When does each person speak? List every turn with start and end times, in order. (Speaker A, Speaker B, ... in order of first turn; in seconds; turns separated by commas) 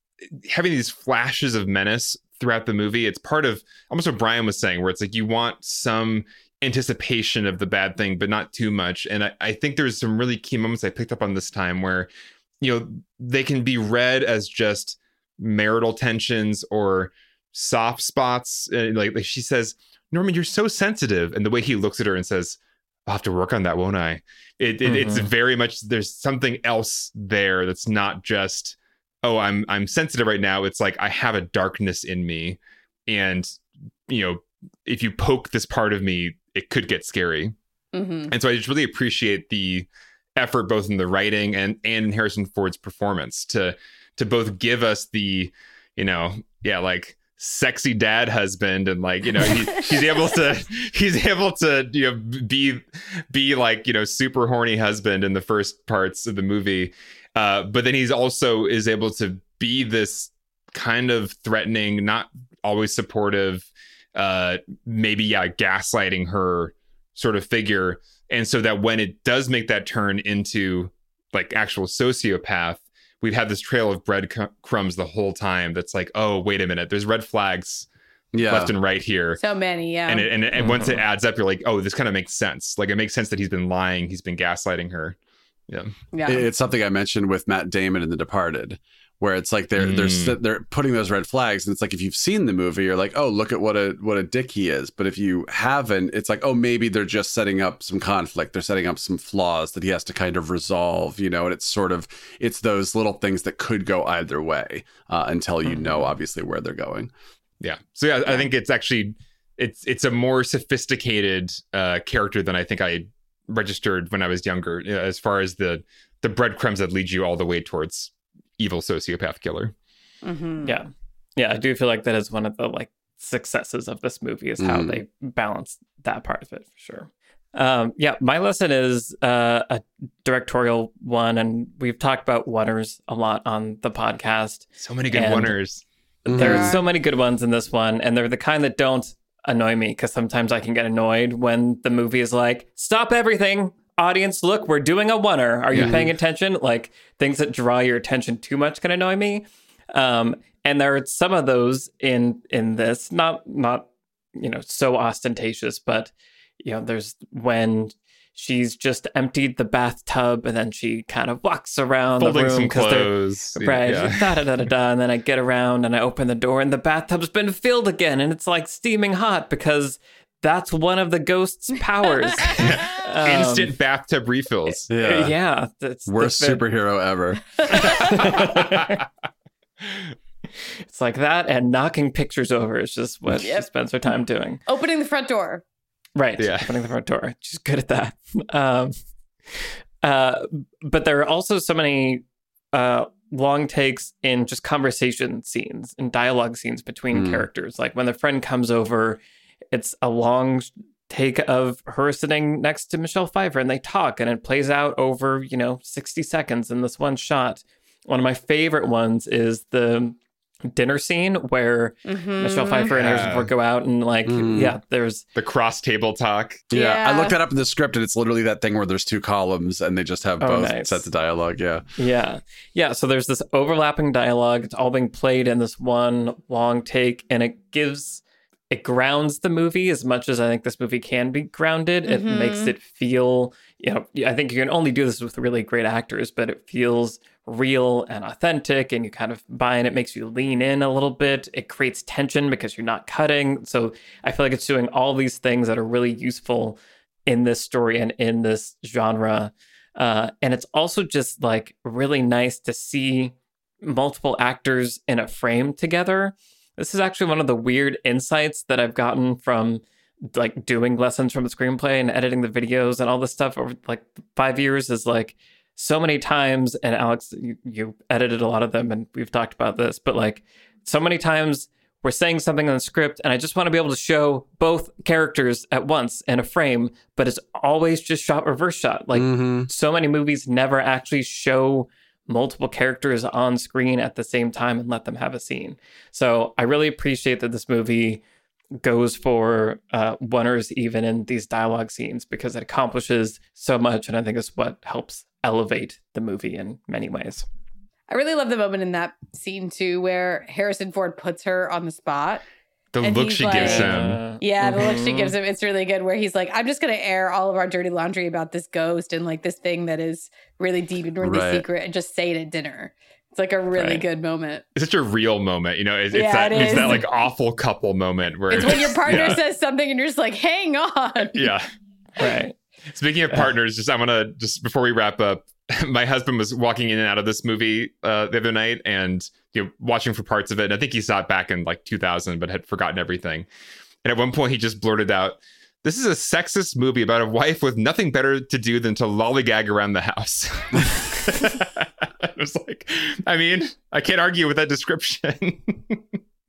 Speaker A: 0.5-12.1, Speaker A: 12.6-37.5, Speaker B: 24.8-25.3, Speaker C: 37.9-38.3, Speaker A: 38.3-77.9, Speaker D: 78.3-78.7, Speaker A: 78.5-79.4, Speaker C: 79.4-80.3, Speaker A: 80.1-85.2, Speaker B: 80.6-81.0, Speaker C: 86.1-86.5, Speaker D: 86.2-107.1, Speaker A: 89.8-90.4, Speaker A: 107.6-119.7, Speaker C: 120.2-120.8, Speaker B: 120.6-135.6, Speaker D: 124.6-125.0, Speaker A: 134.8-135.8, Speaker D: 136.3-136.8, Speaker B: 136.3-173.7, Speaker C: 136.4-136.8, Speaker D: 145.7-146.1, Speaker A: 162.2-164.4, Speaker C: 172.4-172.7, Speaker A: 172.6-174.9, Speaker D: 174.9-175.3, Speaker B: 174.9-176.7, Speaker D: 176.1-177.4, Speaker C: 177.6-178.0, Speaker B: 177.7-179.0, Speaker A: 178.0-179.0, Speaker B: 180.9-184.6, Speaker C: 183.4-183.7, Speaker C: 184.7-185.6, Speaker B: 186.2-188.9, Speaker A: 186.4-186.7, Speaker B: 189.6-199.2, Speaker D: 197.1-197.5, Speaker B: 199.7-210.2, Speaker B: 210.7-215.2, Speaker C: 212.1-212.9, Speaker A: 212.9-213.5, Speaker D: 214.3-214.8, Speaker A: 215.4-216.6, Speaker D: 216.7-221.8, Speaker C: 216.7-217.4, Speaker B: 220.4-221.1, Speaker B: 222.0-288.2, Speaker C: 232.1-232.7, Speaker D: 279.1-279.7, Speaker B: 288.8-297.4, Speaker C: 298.1-302.4, Speaker A: 302.9-304.2, Speaker C: 303.0-314.6, Speaker B: 303.5-305.4, Speaker D: 311.2-311.7, Speaker B: 313.8-314.0, Speaker A: 314.8-319.4, Speaker C: 316.1-317.0, Speaker B: 316.6-317.0, Speaker C: 318.5-321.5, Speaker A: 321.3-321.7, Speaker B: 322.2-322.6, Speaker A: 322.9-333.5, Speaker A: 334.0-346.0